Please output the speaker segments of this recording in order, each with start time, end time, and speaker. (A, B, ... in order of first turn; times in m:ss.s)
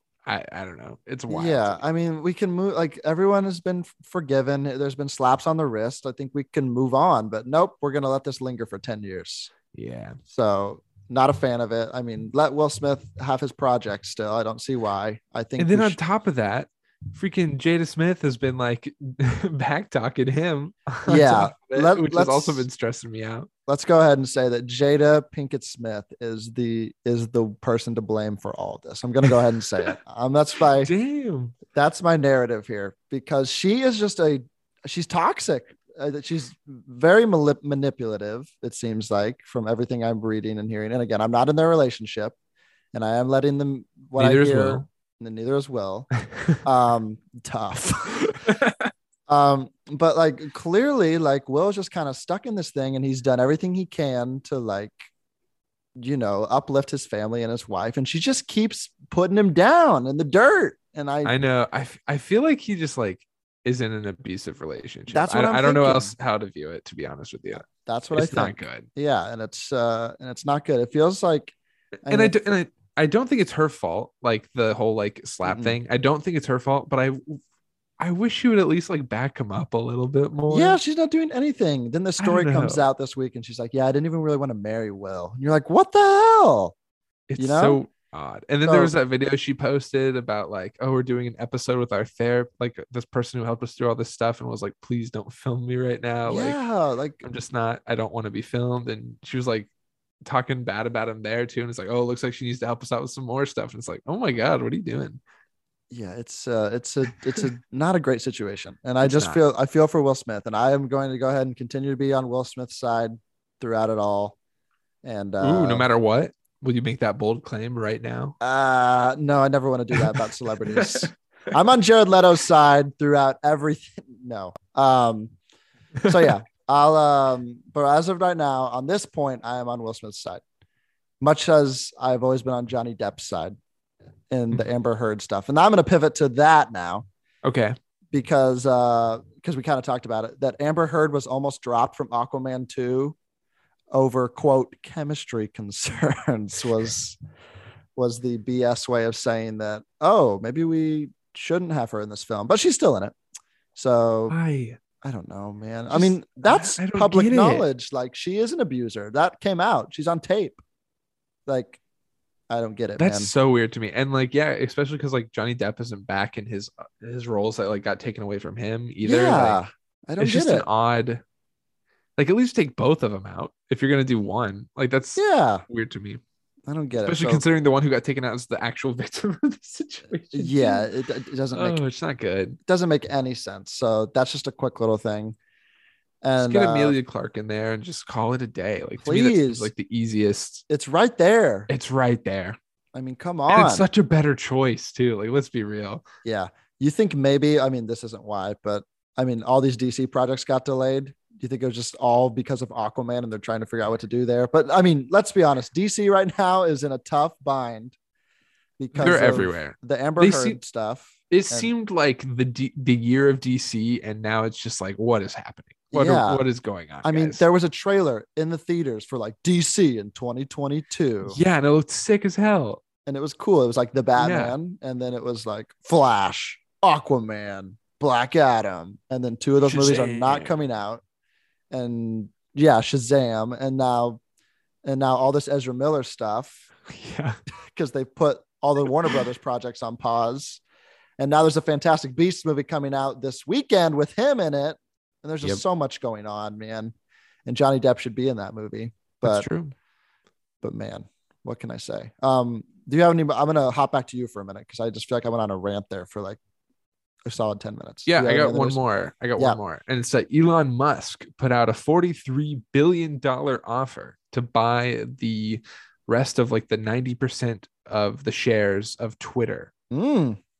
0:00.2-0:01.8 A
0:01.3-0:09.5 B
0:09.7-0:10.2 A
0:10.3-0:16.0 B
0:15.6-0:23.5 A
0:21.1-0:22.7 B
0:23.7-0:30.9 B
0:30.8-0:31.6 A
0:31.7-0:42.3 B
0:42.9-0:46.1 B
0:44.2-0:44.9 A
0:46.6-0:48.3 B
0:48.4-0:48.9 A
0:49.3-0:55.0 B
0:56.0-1:01.3 B
1:01.2-1:08.9 A
1:05.1-1:06.1 B
1:07.6-1:11.5 B
1:12.0-1:12.4 B
1:12.0-1:17.4 A
1:15.4-1:15.8 B
1:18.0-1:20.8 A
1:20.5-1:26.7 B
1:22.2-1:22.8 A
1:27.3-1:36.6 A
1:27.4-1:27.8 B
1:28.6-1:28.9 B
1:36.2-1:37.2 B
1:37.2-1:39.7 A
1:40.2-1:45.2 A
1:45.9-1:54.4 B
1:49.0-1:49.4 A
1:55.0-1:55.9 B
1:55.4-1:58.4 A
1:58.4-2:05.3 B
2:00.7-2:01.1 A
2:06.0-2:10.4 B
2:11.2-2:13.6 B
2:14.3-2:17.0 B
2:17.4-2:17.8 A
2:18.1-2:23.2 B
2:23.9-2:27.2 B
2:28.0-2:33.1 B
2:33.7-2:34.4 B
2:34.3-2:34.8 A
2:35.0-2:40.6 B
2:35.9-2:37.6 A
2:41.5-2:41.8 B
2:42.5-2:43.3 B
2:43.0-2:49.6 A
2:49.0-2:50.6 B
2:50.2-2:51.2 A
2:52.2-2:56.2 A
2:55.2-2:55.6 B
2:56.6-2:57.4 B
2:57.0-3:00.9 A
3:00.3-3:01.8 B
3:01.5-3:02.6 A
3:02.7-3:05.4 B
3:06.2-3:07.0 B
3:06.4-3:10.6 A
3:09.0-3:09.7 B
3:10.7-3:11.7 B
3:11.7-3:12.6 A
3:12.9-3:13.8 B
3:13.5-3:16.0 A
3:16.2-3:28.0 B
3:28.8-3:31.7 B
3:28.9-3:30.6 A
3:31.3-3:37.4 A
3:35.9-3:36.4 B
3:37.0-3:41.4 B
3:41.2-3:42.8 A
3:43.0-3:51.0 B
3:44.2-3:44.6 A
3:49.6-3:50.6 A
3:51.7-3:54.2 B
3:54.8-3:56.6 B
3:56.9-3:57.4 A
3:57.7-4:00.6 B
4:01.2-4:06.9 B
4:07.4-4:09.5 B
4:09.2-4:09.7 A
4:10.6-4:16.4 B
4:17.2-4:18.8 B
4:18.1-4:29.7 A
4:29.9-4:30.4 B